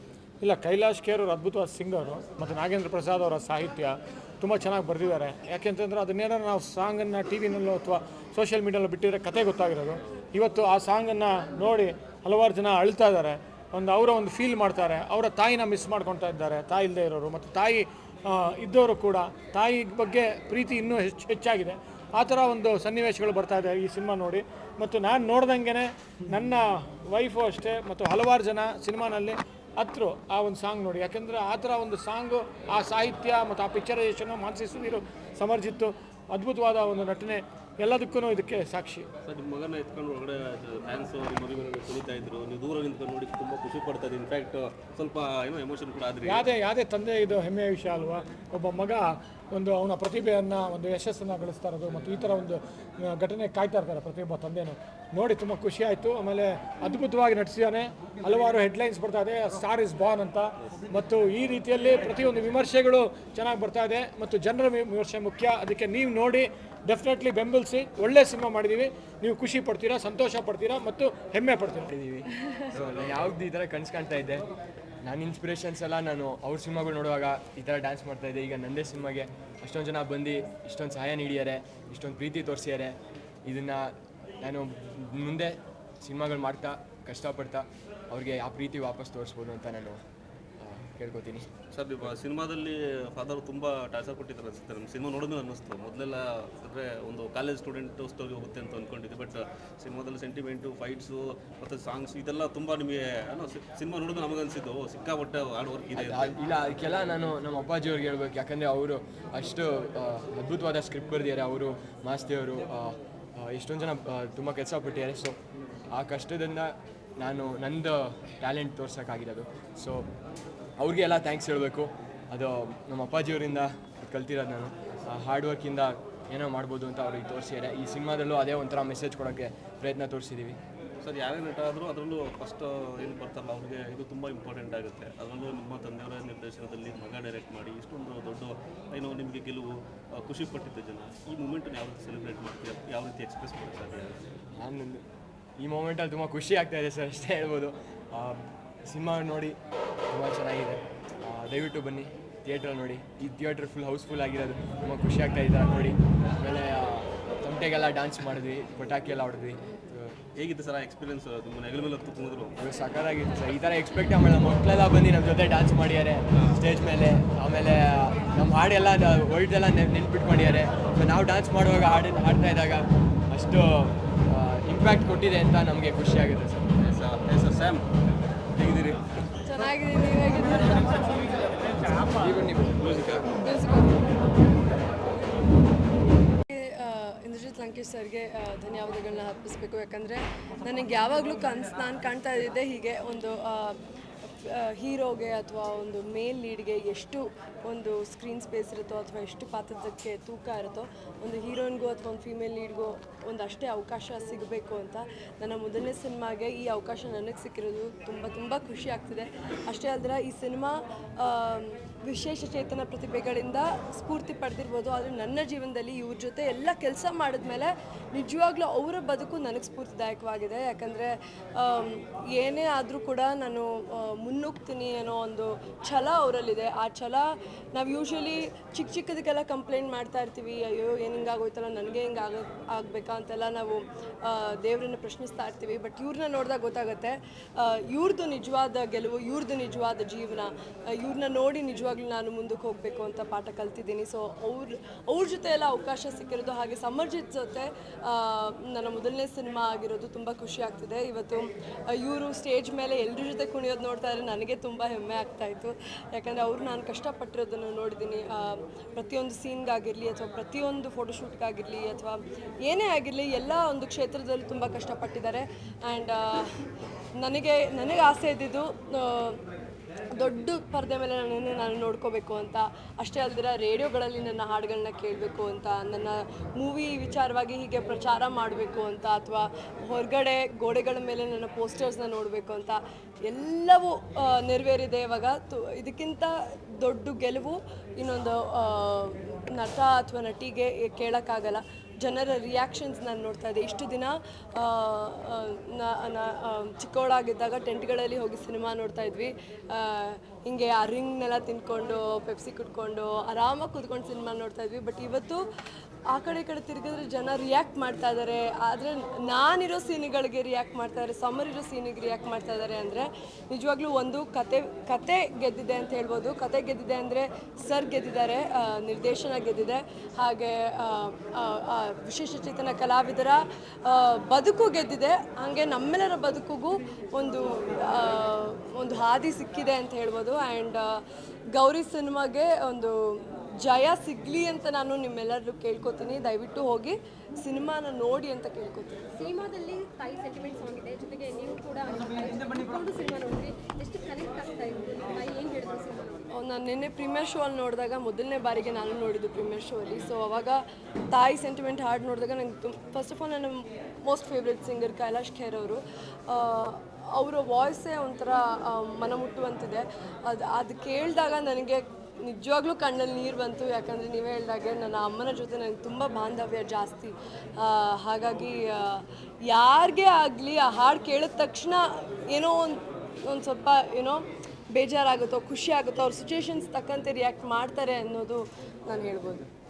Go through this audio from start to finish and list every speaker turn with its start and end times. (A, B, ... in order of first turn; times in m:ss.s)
0:00.4-0:39.1 A
0:39.3-0:46.4 B
0:46.2-1:11.9 A
1:11.9-1:14.5 C
1:15.0-1:30.0 C
1:30.6-1:31.5 C
1:31.7-1:46.4 B
1:46.0-1:55.4 C
1:55.9-2:00.1 C
2:00.8-2:10.6 C
2:11.0-2:24.2 B
2:24.6-2:25.0 C
2:25.6-2:29.6 C
2:30.1-2:40.2 C
2:40.4-2:42.6 B
2:42.6-2:56.7 C
2:46.3-2:46.6 B
2:56.8-2:57.9 B
2:58.6-2:59.0 B
2:59.4-3:01.8 D
3:02.1-3:03.3 C
3:02.8-3:03.3 B
3:03.4-3:04.1 D
3:06.4-4:26.6 D
4:27.2-4:29.4 D
4:30.2-5:05.4 D
5:06.1-5:31.0 D
5:31.6-5:39.2 D
5:39.2-5:46.3 E
5:46.3-5:50.6 D
5:51.1-6:19.5 D